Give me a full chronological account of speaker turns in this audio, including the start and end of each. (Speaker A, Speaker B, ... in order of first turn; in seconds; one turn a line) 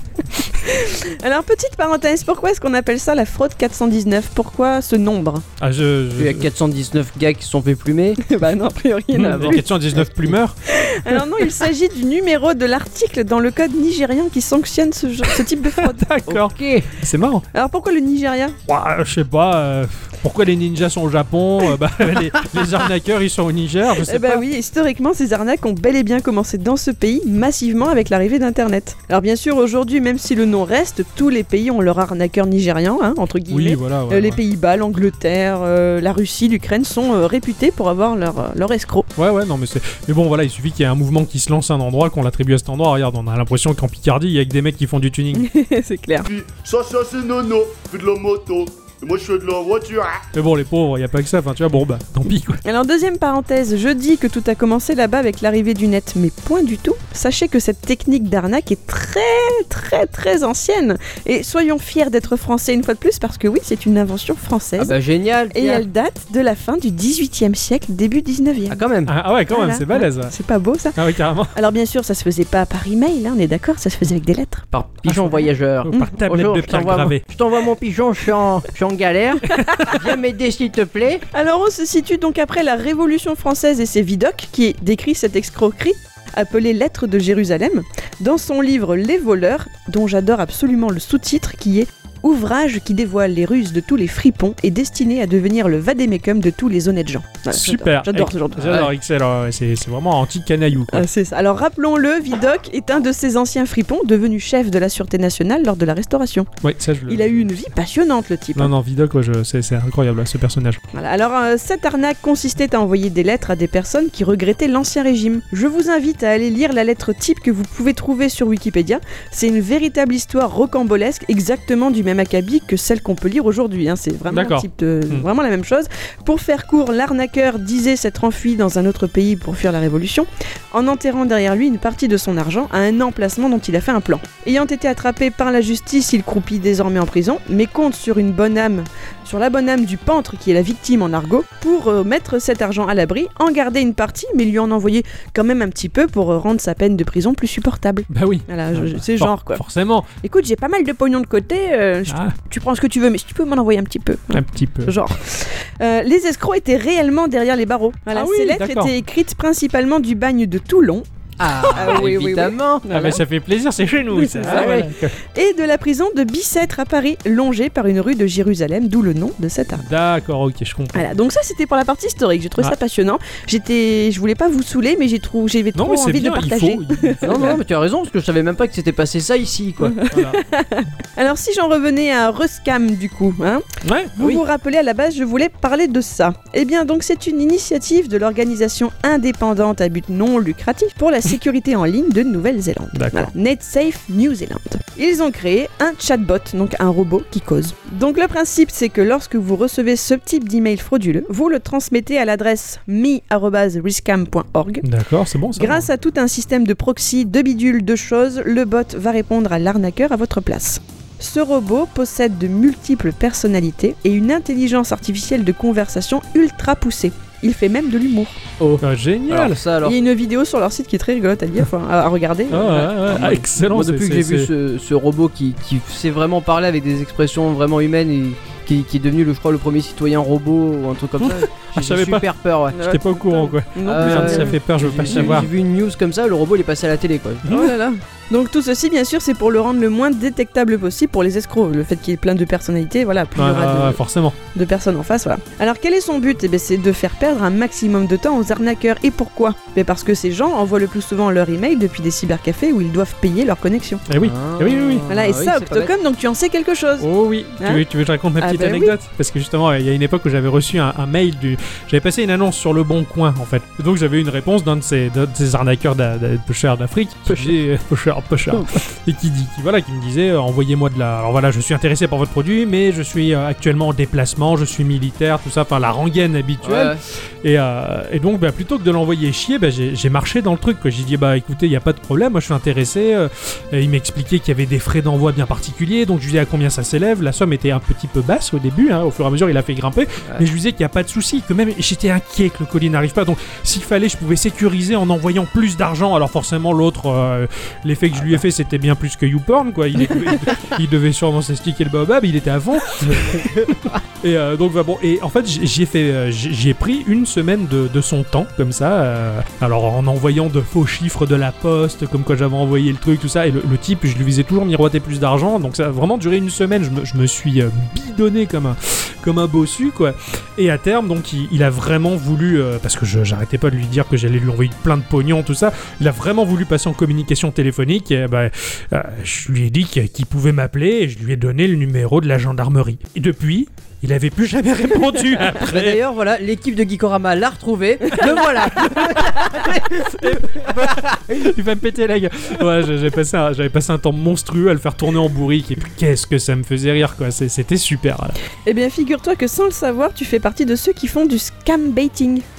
Speaker A: 0.4-5.5
Speaker B: 5.6-6.5
Speaker C: 6.2-8.2
Speaker A: 8.2-9.8
Speaker B: 9.1-10.6
Speaker C: 9.2-9.6
Speaker A: 10.7-16.2
Speaker B: 15.7-17.4
Speaker C: 16.3-16.9
Speaker A: 17.5-18.6
Speaker B: 18.7-24.4
Speaker A: 24.0-39.1
Speaker B: 33.5-34.4
Speaker B: 39.2-45.5
Speaker A: 45.3-46.3
Speaker D: 46.2-50.2
Speaker B: 50.3-52.6
Speaker A: 52.6-65.0
Speaker C: 64.8-65.8
Speaker A: 65.5-68.8
Speaker C: 68.7-69.1
Speaker B: 69.1-70.3
Speaker A: 69.5-71.0
Speaker B: 71.0-71.5
Speaker A: 71.5-74.7
Speaker C: 74.7-81.2
Speaker B: 75.1-77.2
Speaker A: 75.9-76.2
Speaker B: 79.6-79.9
Speaker A: 81.3-98.8
Speaker B: 97.5-101.1
Speaker A: 100.9-106.5
Speaker B: 106.6-107.5
Speaker A: 107.1-108.7
Speaker B: 108.5-110.8
Speaker A: 110.9-149.6
Speaker B: 124.3-125.3
Speaker B: 148.1-150.1
Speaker A: 150.2-161.1
Speaker B: 152.1-152.3
Speaker B: 154.3-154.9
Speaker B: 158.1-158.9
Speaker C: 161.4-162.9
Speaker A: 161.7-163.2
Speaker B: 161.8-162.1
Speaker B: 162.9-165.2
Speaker A: 164.2-169.9
Speaker C: 164.5-164.9
Speaker B: 169.8-171.1
Speaker A: 170.9-177.6
Speaker B: 175.8-177.6
Speaker C: 177.2-180.0
Speaker A: 179.8-183.7
Speaker B: 180.1-180.4
Speaker B: 183.8-184.4
Speaker A: 184.2-204.9
Speaker B: 192.9-193.3
Speaker B: 204.8-205.9
Speaker A: 205.6-218.4
Speaker C: 218.6-220.0
Speaker B: 218.8-219.6
Speaker A: 219.8-222.9
Speaker B: 222.5-224.5
Speaker C: 223.0-232.8
Speaker B: 231.2-232.3
Speaker A: 232.7-235.5
Speaker B: 232.8-235.5
Speaker C: 233.8-237.6
Speaker B: 237.4-237.7
Speaker A: 237.5-244.0
Speaker B: 243.4-244.4
Speaker A: 244.5-254.0
Speaker B: 254.1-255.1
Speaker C: 254.2-255.9
Speaker A: 255.1-257.8
Speaker B: 257.0-336.0
Speaker A: 258.4-258.9
Speaker C: 276.6-277.0
Speaker C: 303.2-303.9
Speaker C: 335.5-341.5
Speaker B: 339.2-339.5
Speaker B: 340.0-348.4
Speaker A: 348.6-352.4